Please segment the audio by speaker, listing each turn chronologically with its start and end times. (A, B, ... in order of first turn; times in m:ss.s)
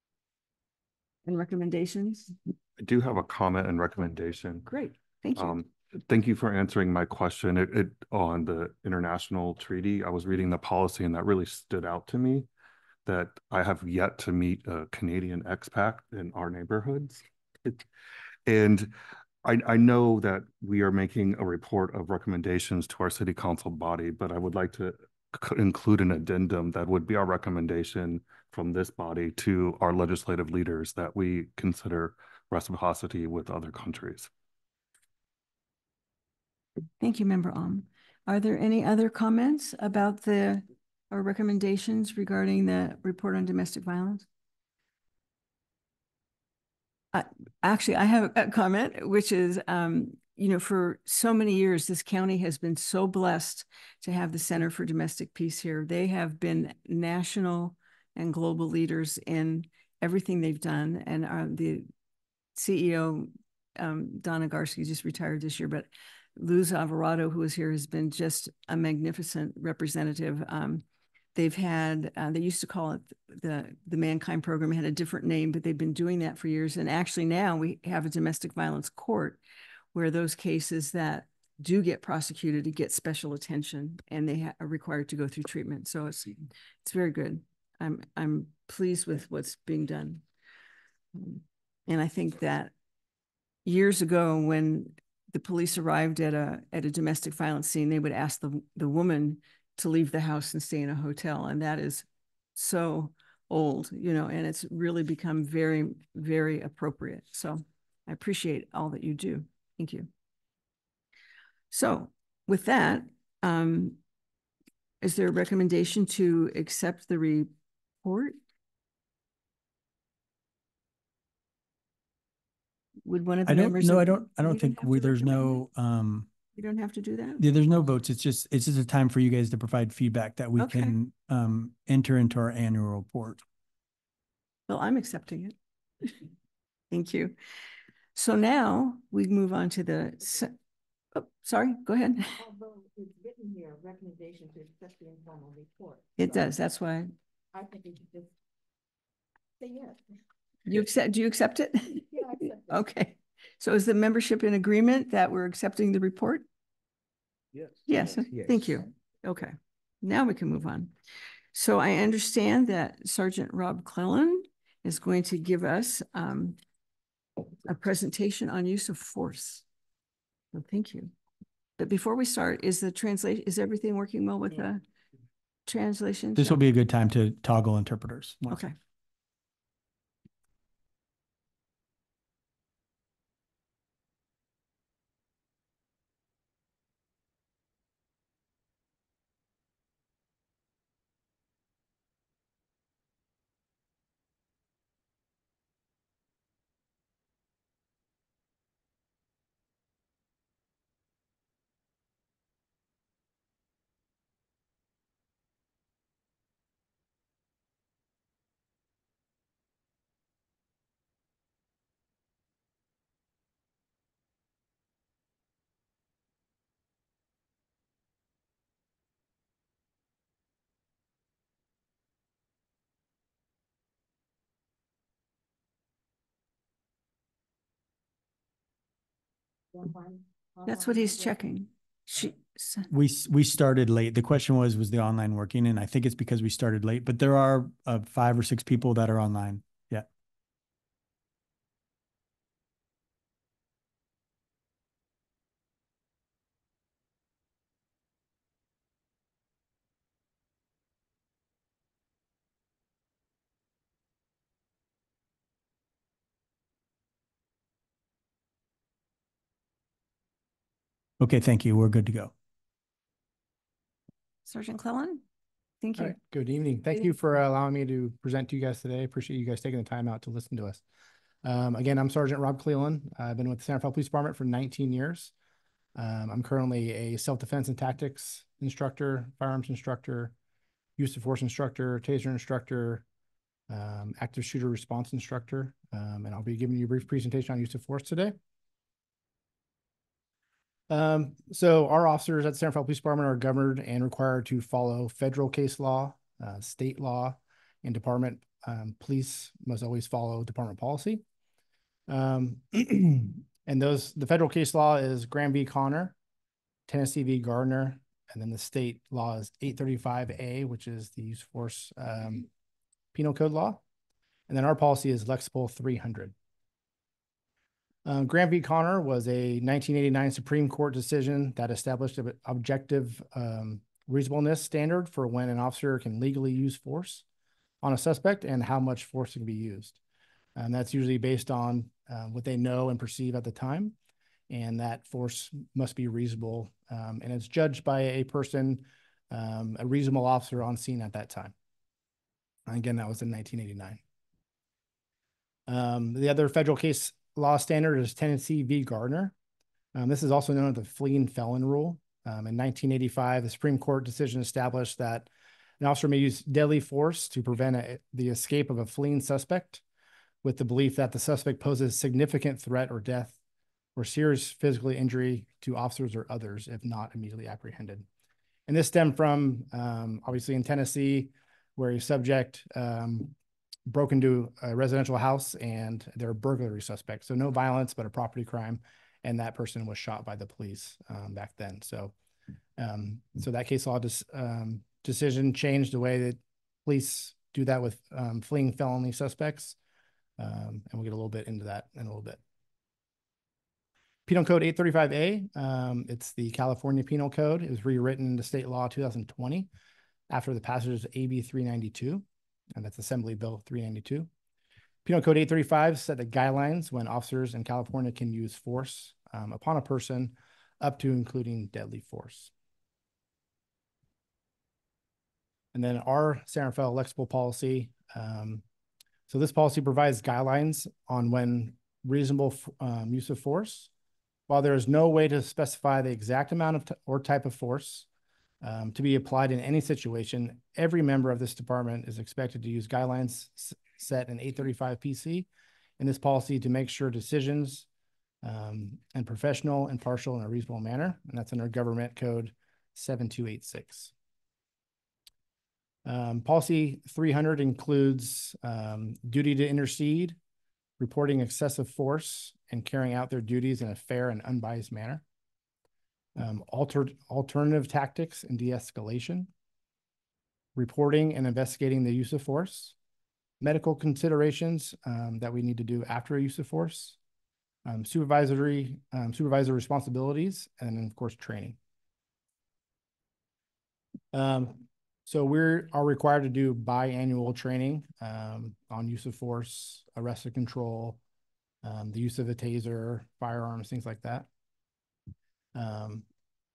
0:01.2-0:02.4 A
0:02.8-0:04.7 B
0:04.7-0:05.6 A
0:05.4-0:12.5 B
0:13.1-0:17.8 B
0:18.5-0:18.9 B
0:19.4-0:34.3 B
0:37.0-0:44.3 A
0:47.1-1:01.9 A
1:02.6-1:19.4 A
1:19.9-1:30.2 A
1:31.2-1:32.7 A
1:33.6-1:50.1 A
1:51.7-1:54.0 A
1:55.0-1:57.5 A
1:58.0-1:58.4 A
2:03.0-2:05.6 A
2:03.4-2:06.3 C
2:06.6-2:07.4 A
2:07.4-2:13.4 C
2:10.6-2:11.0 A
2:14.7-2:15.6 A
2:16.9-2:17.4 A
2:18.1-2:20.5 A
2:21.1-2:22.4 A
2:22.4-2:26.5 D
2:26.2-2:27.1 A
2:27.5-2:28.3 D
2:29.6-2:30.0 D
2:30.6-2:36.4 A
2:32.1-2:32.8 D
2:37.9-2:40.9 A
2:41.5-2:46.6 A
2:47.6-2:49.6 A
2:50.5-2:51.1 A
2:51.8-2:54.8 A
2:55.7-2:56.6 A
2:56.4-2:58.6 C
2:58.5-2:58.8 A
3:50.6-3:52.9 A
3:52.9-4:00.1 C
4:21.2-4:22.3 C
4:24.4-4:25.2 A
4:25.8-4:26.2 A
4:26.0-4:30.8 E
4:31.4-4:35.3 E
4:36.0-4:40.3 E
4:41.0-4:43.0 E
4:43.7-4:48.4 E
4:50.9-5:01.2 E
5:02.1-5:06.1 E
5:06.9-5:12.5 E
5:13.1-5:13.8 E
5:14.5-5:16.3 E
5:18.0-5:27.2 E
5:27.8-5:30.0 E
5:30.6-5:34.0 E
5:34.5-5:41.5 E
5:42.7-5:44.0 E
5:45.7-5:49.3 E
5:49.9-5:55.3 E
5:55.8-5:59.8 E
6:00.4-6:03.4 E
6:04.0-6:08.1 E
6:08.7-6:13.3 E
6:13.9-6:22.1 E
6:22.8-6:29.8 E
6:30.4-6:32.4 E
6:34.3-6:39.7 E
6:40.3-6:44.3 E
6:45.0-6:52.5 E
6:55.7-6:58.6 E
6:59.3-7:03.9 E
7:04.5-7:08.1 E
7:08.6-7:15.5 E
7:16.0-7:17.9 E
7:18.4-7:24.1 E
7:26.1-7:30.4 E
7:31.0-7:35.2 E
7:36.4-7:39.5 E
7:40.8-7:42.9 E
7:43.6-7:47.2 E
7:47.9-7:51.8 E
7:54.3-8:01.2 E
8:01.8-8:04.5 E
8:05.8-8:06.2 E